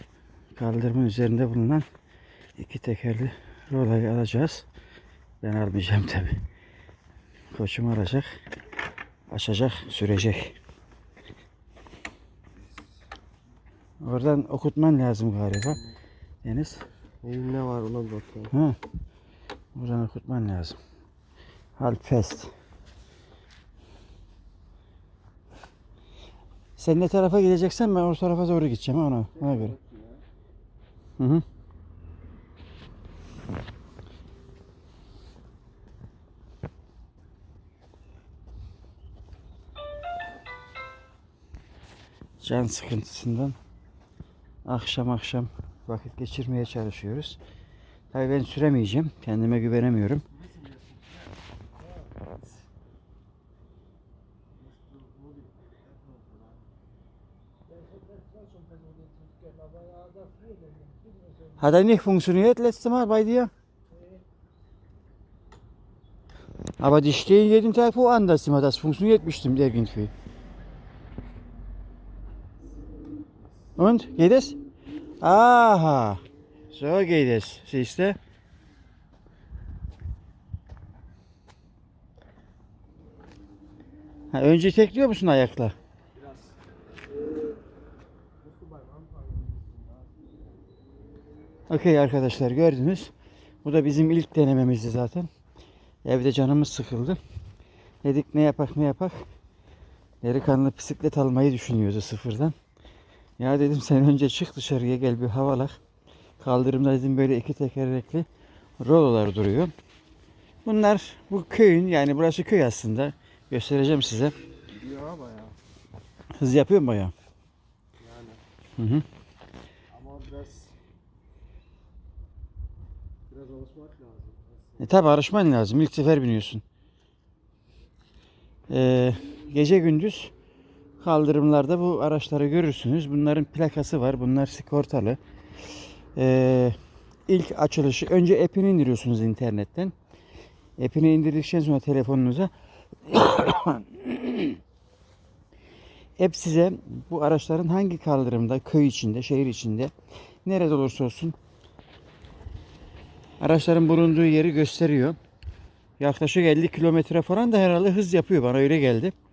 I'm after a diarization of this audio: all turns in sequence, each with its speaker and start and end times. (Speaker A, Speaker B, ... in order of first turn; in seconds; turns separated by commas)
Speaker A: 0.6-1.9, Speaker A: 2.6-4.7, Speaker A: 5.4-6.4, Speaker A: 7.5-8.3, Speaker A: 9.3-10.6, Speaker A: 14.0-15.8, Speaker A: 16.4-16.8, Speaker B: 17.2-18.5, Speaker A: 18.5-18.8, Speaker A: 19.7-20.8, Speaker A: 21.8-22.5, Speaker A: 26.8-29.7, Speaker B: 29.5-30.1, Speaker A: 31.2-31.4, Speaker A: 42.4-43.5, Speaker A: 44.6-47.4, Speaker A: 48.1-50.2, Speaker B: 54.9-55.5, Speaker B: 60.0-60.9, Speaker A: 61.6-63.5, Speaker A: 66.8-70.1, Speaker A: 73.8-74.5, Speaker A: 75.2-78.2, Speaker A: 84.3-85.7, Speaker B: 88.6-90.0, Speaker A: 91.7-93.1, Speaker A: 93.6-95.3, Speaker A: 96.0-97.2, Speaker A: 98.0-99.2, Speaker A: 100.2-102.5, Speaker A: 103.4-105.8, Speaker A: 106.4-108.3, Speaker A: 108.8-109.7, Speaker A: 110.6-114.3, Speaker B: 114.7-115.5, Speaker A: 116.4-117.1, Speaker B: 118.0-118.4, Speaker A: 118.8-119.0, Speaker B: 119.9-120.7, Speaker B: 123.3-124.5, Speaker A: 124.8-126.6, Speaker A: 128.7-130.3, Speaker A: 131.0-135.2, Speaker A: 136.1-139.9, Speaker A: 140.8-142.5, Speaker A: 143.1-144.6, Speaker A: 146.2-149.9, Speaker A: 150.4-151.3, Speaker A: 153.4-155.2, Speaker A: 156.0-159.1